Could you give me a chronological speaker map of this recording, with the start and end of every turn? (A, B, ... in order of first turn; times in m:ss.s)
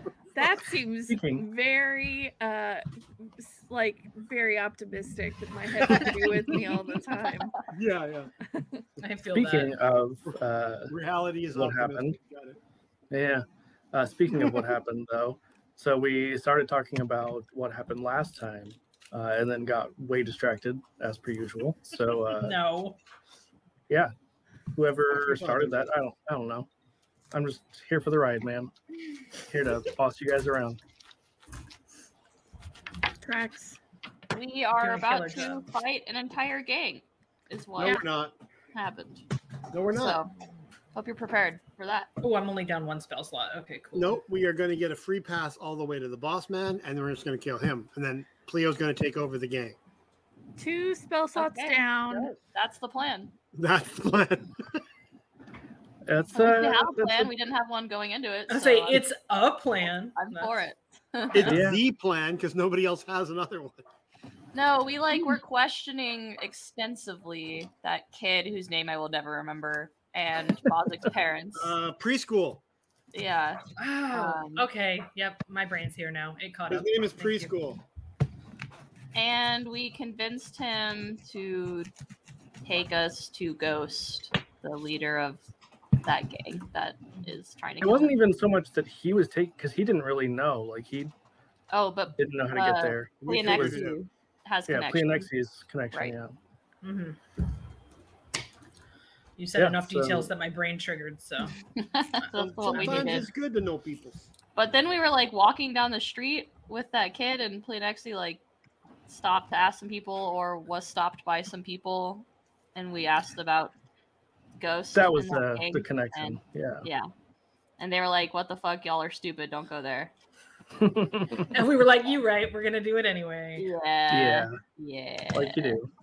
0:00.3-0:02.8 A
0:01.1-0:01.4 B
0:03.4-0:07.6 A
0:05.8-0:06.7 C
0:07.7-0:08.3 C
0:08.5-0:08.8 A
0:09.0-0:09.7 D
0:09.3-0:10.9 B
0:10.9-0:12.6 C
0:11.5-0:12.2 B
0:13.1-0:22.6 B
0:22.3-0:23.0 D
0:24.7-0:26.7 B
0:25.1-0:25.9 C
0:27.3-0:28.7 B
0:29.5-0:30.8 B
0:33.2-0:33.8 A
0:34.3-0:38.0 E
0:34.8-0:35.6 D
0:37.8-0:38.3 C
0:38.7-0:39.2 E
0:39.7-0:40.2 C
0:39.9-0:40.3 E
0:40.9-0:42.1 E
0:42.2-0:44.2 D
0:43.9-0:49.8 C
0:50.6-0:52.3 A
0:51.3-0:53.3 E
0:53.5-0:54.8 C
0:56.1-0:57.3 B
0:56.3-0:59.0 E
0:58.5-1:00.6 D
1:00.1-1:01.6 E
1:01.3-1:03.8 C
1:01.4-1:01.8 B
1:04.5-1:11.8 E
1:11.6-1:12.6 C
1:13.1-1:14.6 E
1:13.8-1:17.5 D
1:16.7-1:17.8 C
1:19.1-1:21.9 E
1:22.6-1:25.4 E
1:26.0-1:28.2 E
1:27.8-1:31.1 B
1:31.7-1:35.3 E
1:32.2-1:33.8 B
1:33.2-1:34.0 C
1:34.7-1:36.3 B
1:36.8-1:37.2 D
1:39.4-1:41.5 D
1:39.5-1:40.3 B
1:41.7-1:43.3 E
1:42.2-1:43.3 D
1:42.3-1:44.2 C
1:44.6-1:48.4 E
1:49.1-1:53.7 E
1:54.6-1:57.1 E
1:54.9-1:56.9 B
1:57.8-2:00.1 E
2:00.8-2:01.5 B
2:01.5-2:03.7 D
2:03.6-2:05.8 E
2:04.1-2:04.6 B
2:05.3-2:05.9 B